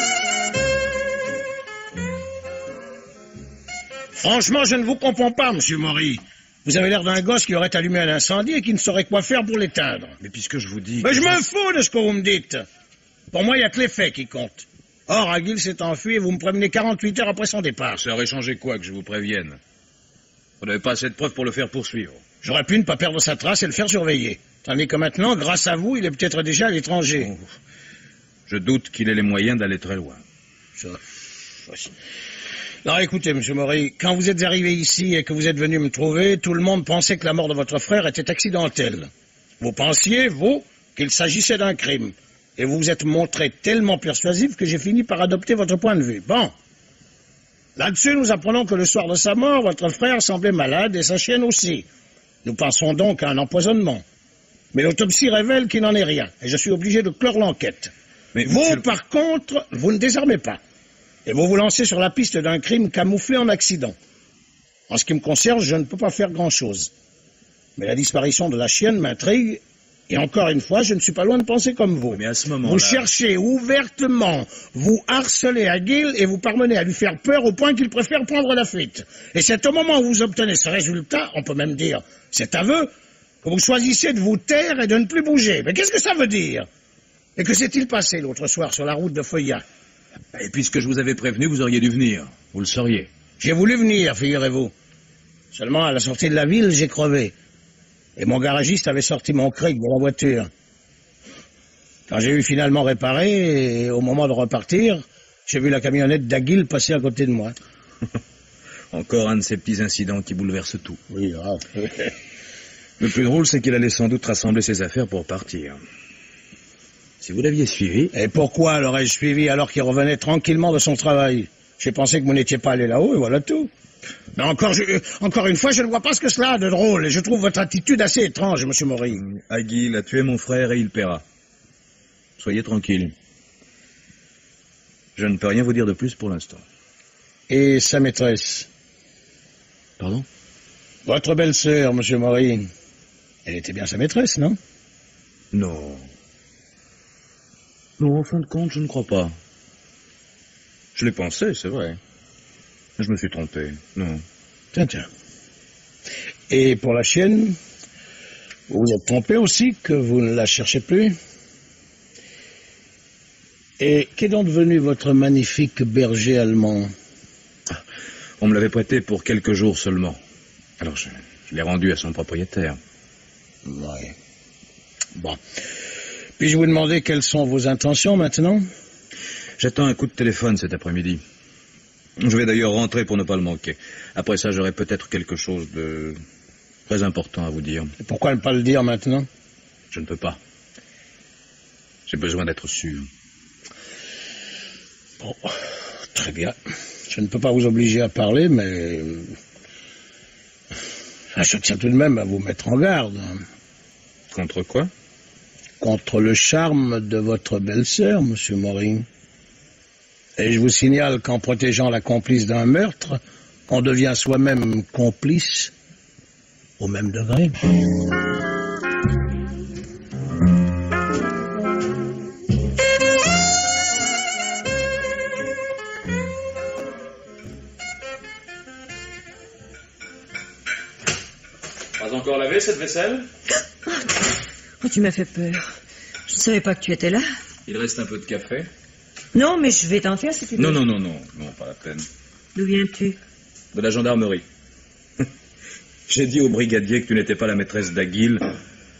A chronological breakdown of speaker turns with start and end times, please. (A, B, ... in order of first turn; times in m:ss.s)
0:04.1-0:10.2 A
0:10.2-0:11.4 B
0:11.0-0:12.6 A
0:13.3-0:18.0 A
0:17.9-0:19.6 B
0:20.6-0:22.2 B
0:22.4-0:27.3 A
0:28.5-0:30.2 B
0:32.8-0:46.5 A
0:47.8-0:51.9 A
0:52.4-0:54.0 A
0:54.7-0:57.9 A
0:58.4-0:58.8 B
0:58.4-1:00.6 A
1:01.3-1:04.0 A
1:04.9-1:06.9 A
1:07.8-1:22.9 A
1:12.1-1:13.1 B
1:23.4-1:26.7 A
1:27.4-1:29.6 A
1:30.3-1:33.1 B
1:33.4-1:34.7 A
1:35.5-1:37.3 A
1:38.2-1:40.5 A
1:42.1-1:47.6 A
1:48.9-1:51.0 B
1:51.1-1:52.1 A
1:53.0-1:55.8 B
1:57.2-1:58.1 B
1:58.1-2:03.7 A
2:04.4-2:09.2 A
2:09.2-2:11.2 B
2:12.4-2:13.1 B
2:15.2-2:16.6 B
2:17.5-2:18.7 A
2:20.0-2:20.3 B
2:21.0-2:22.7 A
2:23.4-2:24.6 A
2:25.5-2:26.1 B
2:28.0-2:29.4 B
2:31.0-2:32.0 B
2:33.0-2:34.2 B
2:34.7-2:35.1 A
2:36.5-2:37.6 A
2:38.7-2:41.2 A
2:43.8-2:46.9 A
2:48.4-2:50.2 B
2:50.8-2:52.8 B
2:53.6-2:54.1 A
2:56.4-2:58.7 A
2:59.6-3:01.2 B
3:02.2-3:06.2 B
3:06.9-3:07.9 B
3:08.0-3:09.3 A
3:09.9-3:10.4 B
3:12.1-3:13.1 B
3:15.2-3:15.6 A
3:16.1-3:16.6 A
3:17.1-3:19.4 A
3:21.3-3:23.4 A
3:24.3-3:24.9 B
3:25.8-3:29.1 A
3:30.4-3:35.7 A
3:36.8-3:37.6 A
3:52.0-3:53.3 B
3:53.8-3:54.2 C
3:54.8-3:55.7 C
3:56.3-3:57.2 C
3:57.7-3:58.7 B
3:59.3-4:00.8 C
4:00.6-4:02.1 B
4:02.6-4:03.2 C
4:03.7-4:04.4 B
4:06.1-4:08.5 B